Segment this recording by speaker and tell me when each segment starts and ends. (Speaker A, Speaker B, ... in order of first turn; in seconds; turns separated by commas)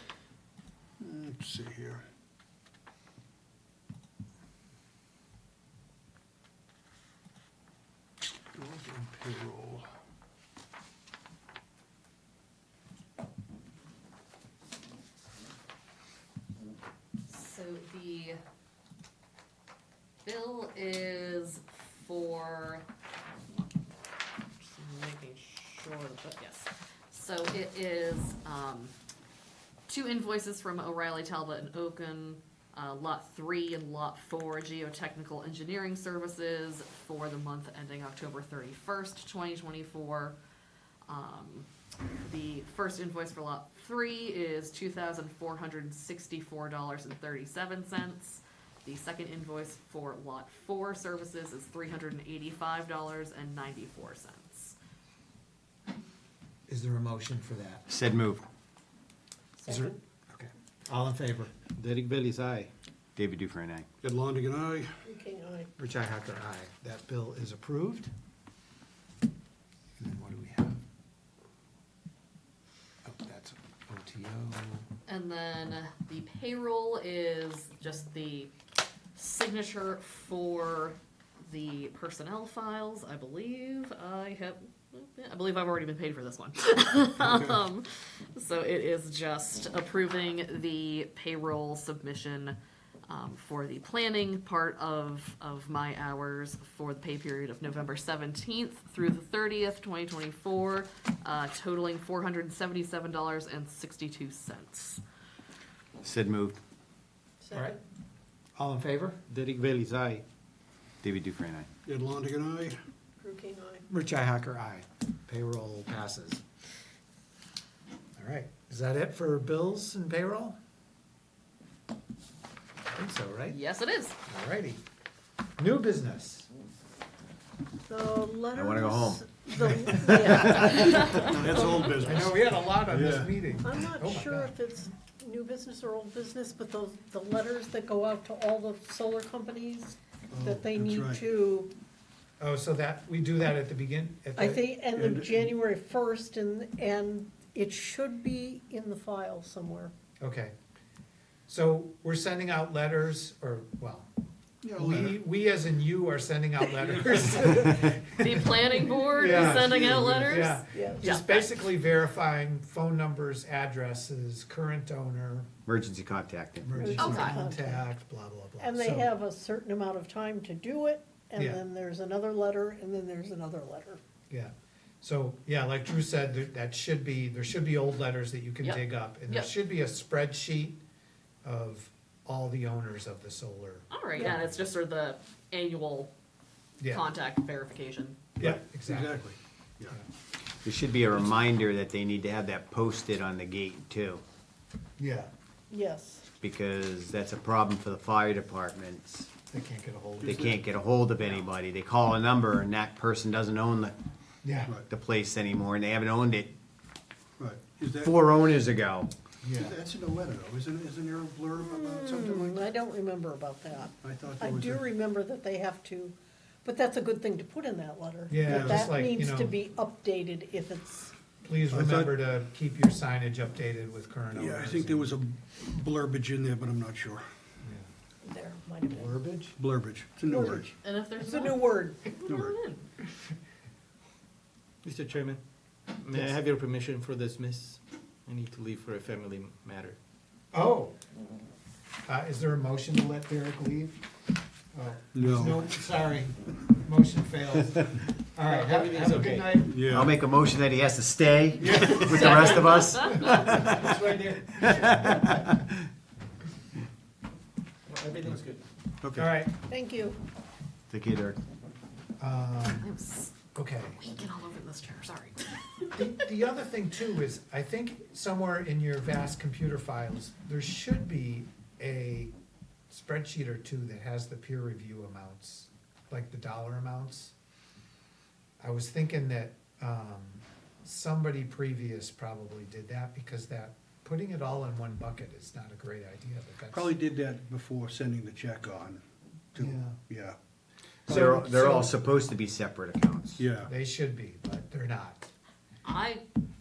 Speaker A: 1.0-2.0, Speaker A: 8.6-9.9, Speaker B: 17.3-18.4, Speaker B: 20.2-22.9, Speaker B: 24.6-28.9, Speaker B: 29.9-40.4, Speaker B: 41.1-41.7, Speaker B: 42.2-54.8, Speaker C: 56.7-57.9, Speaker D: 57.9-58.5, Speaker E: 59.6-60.0, Speaker C: 59.7-61.5, Speaker F: 61.8-62.7, Speaker D: 63.2-63.9, Speaker A: 64.0-65.0, Speaker E: 65.1-65.7, Speaker C: 65.8-68.1, Speaker C: 70.0-70.8, Speaker C: 73.0-74.9, Speaker B: 75.1-78.5, Speaker B: 79.2-105.0, Speaker A: 87.2-87.6, Speaker D: 106.0-106.6, Speaker E: 107.4-107.8, Speaker C: 108.6-109.2, Speaker F: 109.3-110.2, Speaker D: 111.0-111.7, Speaker A: 111.9-112.8, Speaker E: 113.2-113.9, Speaker C: 113.9-116.4, Speaker C: 118.2-120.6, Speaker C: 122.9-123.6, Speaker B: 123.5-124.2, Speaker C: 124.3-124.8, Speaker C: 125.6-126.5, Speaker E: 127.9-131.8, Speaker D: 128.5-131.2, Speaker A: 131.2-133.3, Speaker C: 132.0-134.6, Speaker E: 133.6-141.7, Speaker A: 140.3-141.3, Speaker C: 142.4-144.7, Speaker E: 144.4-149.9, Speaker A: 144.9-145.5, Speaker C: 150.2-150.5, Speaker C: 151.5-154.1, Speaker A: 154.6-155.2, Speaker C: 154.8-158.6, Speaker B: 158.2-161.5, Speaker E: 158.8-159.7, Speaker C: 159.2-165.5, Speaker A: 159.7-160.5, Speaker E: 160.7-161.0, Speaker D: 165.7-166.7, Speaker C: 166.6-169.1, Speaker E: 166.7-167.9, Speaker B: 166.9-167.4, Speaker E: 168.6-174.0, Speaker C: 171.4-171.6, Speaker C: 174.3-180.8, Speaker B: 178.6-179.5, Speaker C: 181.4-184.7, Speaker B: 183.9-186.1, Speaker C: 186.8-187.1, Speaker B: 186.9-188.2, Speaker C: 188.4-189.2, Speaker A: 188.4-190.0, Speaker D: 190.6-194.2, Speaker A: 191.1-191.5, Speaker C: 195.0-195.3, Speaker E: 195.7-196.3, Speaker D: 196.4-199.3, Speaker C: 199.5-200.5, Speaker A: 200.2-200.7, Speaker D: 200.2-203.9, Speaker C: 204.4-204.8, Speaker D: 204.9-206.5, Speaker A: 207.4-208.2, Speaker D: 208.0-209.1, Speaker C: 209.4-209.8, Speaker A: 209.5-212.6, Speaker E: 211.6-221.1, Speaker A: 214.0-214.9, Speaker C: 218.3-219.6, Speaker A: 218.4-218.8, Speaker C: 221.4-225.1, Speaker A: 221.7-222.2, Speaker A: 224.3-227.3, Speaker C: 227.6-227.9, Speaker E: 228.2-229.2, Speaker C: 228.9-229.6, Speaker A: 229.6-230.7, Speaker E: 230.2-232.2, Speaker B: 230.8-232.8, Speaker A: 232.2-232.6, Speaker F: 234.8-240.0, Speaker C: 240.5-241.0, Speaker C: 242.1-244.0, Speaker C: 244.7-249.8, Speaker A: 245.2-245.7, Speaker F: 248.4-249.7, Speaker A: 249.7-250.2, Speaker D: 249.8-254.0, Speaker C: 251.6-252.5, Speaker F: 251.8-252.7, Speaker B: 252.1-253.3, Speaker F: 253.4-255.1, Speaker D: 254.6-255.6, Speaker F: 257.9-258.6, Speaker D: 259.0-259.4, Speaker C: 259.2-259.6, Speaker E: 259.6-260.2, Speaker D: 260.9-261.4, Speaker C: 262.2-262.9, Speaker B: 262.8-263.4, Speaker C: 263.5-264.0, Speaker B: 263.9-266.0, Speaker C: 265.9-272.3, Speaker C: 272.9-277.3, Speaker C: 278.6-287.0, Speaker A: 286.7-289.0, Speaker A: 289.5-290.4, Speaker C: 289.6-290.0, Speaker C: 291.1-291.9, Speaker D: 291.1-293.4, Speaker A: 293.4-293.7, Speaker C: 293.6-295.3, Speaker B: 295.8-296.2